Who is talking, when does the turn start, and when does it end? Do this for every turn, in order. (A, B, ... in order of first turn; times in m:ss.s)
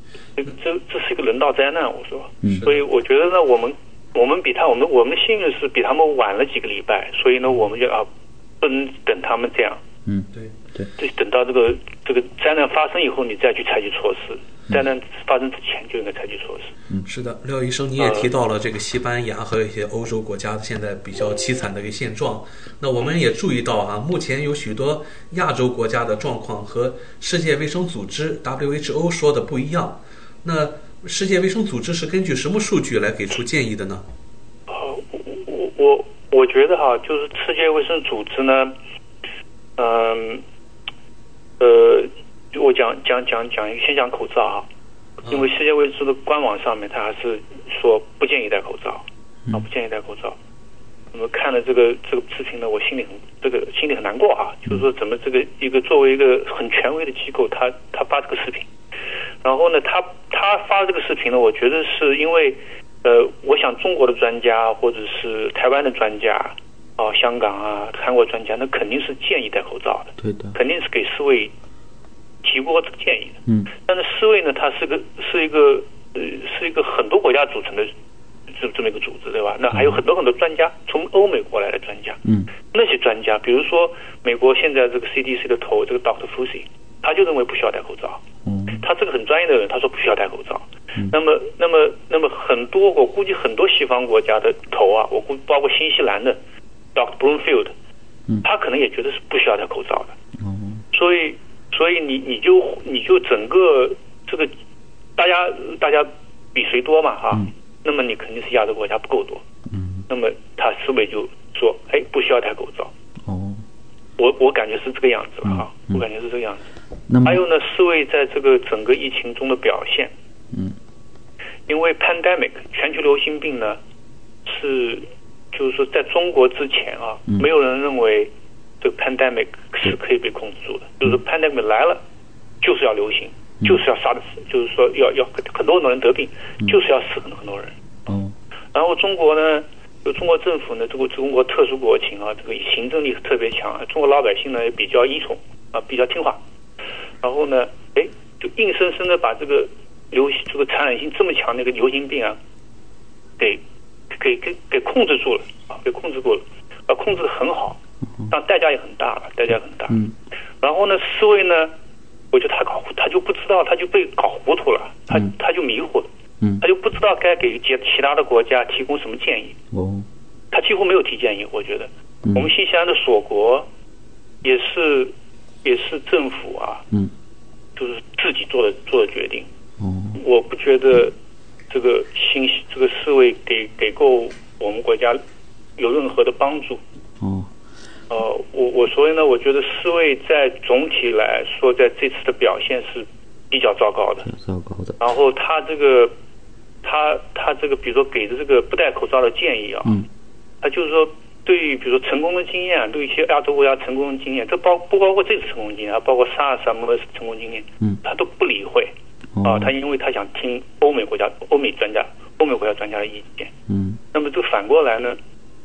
0:00.4-0:08.1 A
0:02.5-0:02.8 B
0:08.6-0:09.8 A
0:10.0-0:10.9 C
0:11.0-0:16.7 A
0:17.0-0:34.0 B
0:18.0-0:18.3 A
0:34.7-0:38.7 A
0:39.8-0:40.4 A
0:41.6-0:44.7 A
0:45.2-0:50.4 A
0:51.1-0:58.7 A
0:59.4-1:11.5 A
1:10.2-1:10.6 C
1:12.4-1:17.9 A
1:18.5-1:28.2 A
1:19.7-1:20.0 C
1:22.2-1:22.5 C
1:28.4-1:28.8 C
1:28.8-1:36.4 A
1:36.9-1:37.7 A
1:38.4-1:40.1 A
1:40.4-1:40.8 C
1:40.9-1:44.5 A
1:45.2-1:49.4 A
1:49.7-1:50.0 C
1:50.1-1:52.9 A
1:53.2-1:53.6 C
1:54.2-1:56.7 A
1:55.4-1:56.0 C
1:57.1-1:57.4 C
1:57.2-2:00.1 A
2:01.7-2:03.8 A
2:04.4-2:12.0 A
2:12.6-2:17.8 A
2:18.1-2:18.3 C
2:18.7-2:26.4 A
2:27.2-2:32.4 A
2:33.4-2:37.8 A
2:38.3-2:39.9 A
2:39.9-2:40.2 C
2:40.6-2:41.7 A
2:42.3-2:46.1 A
2:46.6-2:49.6 A
2:49.7-2:50.1 C
2:50.5-2:53.7 A
2:52.2-2:52.5 C
2:54.4-2:55.1 A
2:55.6-2:56.8 A
2:57.8-2:59.5 A
2:59.8-3:00.2 C
3:00.2-3:01.1 A
3:01.7-3:05.2 A
3:05.8-3:06.8 A
3:07.2-3:07.5 C
3:08.1-3:14.3 A
3:14.2-3:15.0 C
3:15.0-3:16.1 A
3:16.8-3:19.9 A
3:20.6-3:33.5 A
3:29.3-3:29.7 C
3:33.7-3:34.0 C
3:34.1-3:35.2 A